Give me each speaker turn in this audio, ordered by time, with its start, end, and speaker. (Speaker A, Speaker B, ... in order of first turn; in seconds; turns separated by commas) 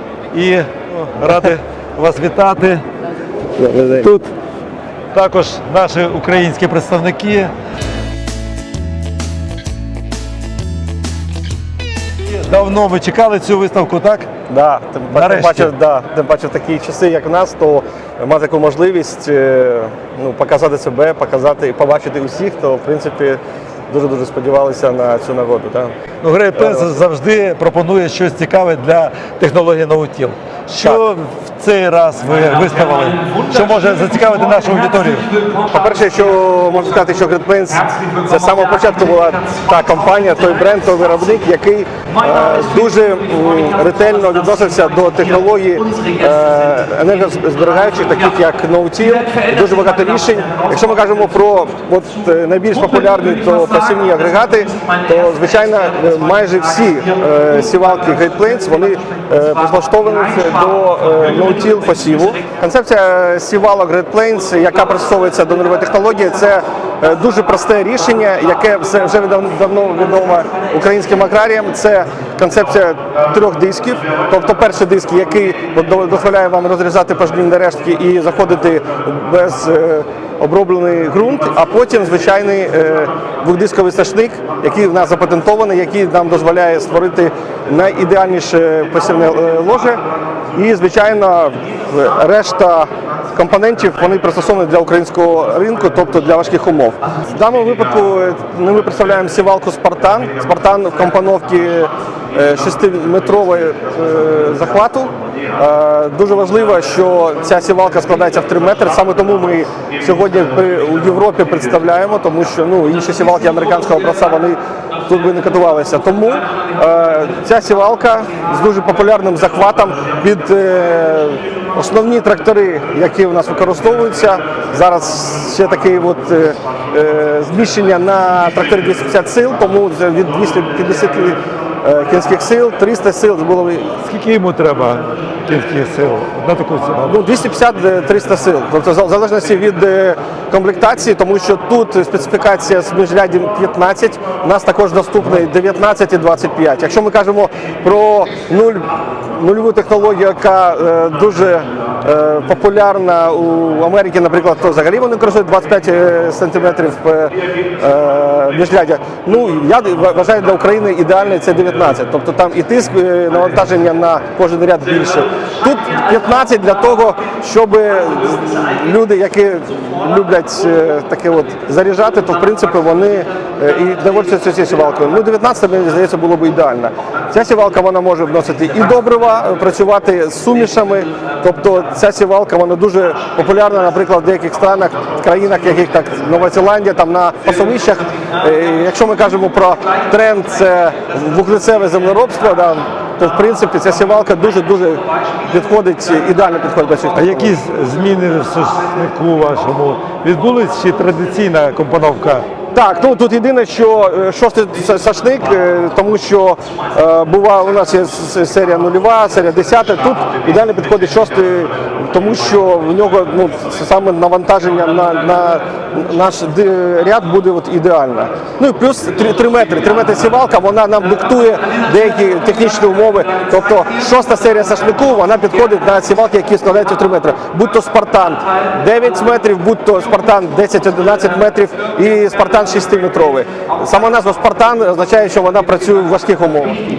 Speaker A: 0.3-2.8, Speaker B: 3.6-4.1, Speaker A: 3.9-4.3, Speaker A: 5.1-7.5, Speaker A: 12.3-14.3, Speaker B: 14.5-25.9, Speaker A: 15.1-15.7, Speaker A: 26.2-35.3, Speaker B: 26.6-26.9, Speaker B: 35.7-90.0, Speaker B: 90.5-133.9, Speaker A: 134.0-137.2, Speaker B: 137.1-197.6, Speaker A: 197.2-202.4, Speaker B: 202.7-236.8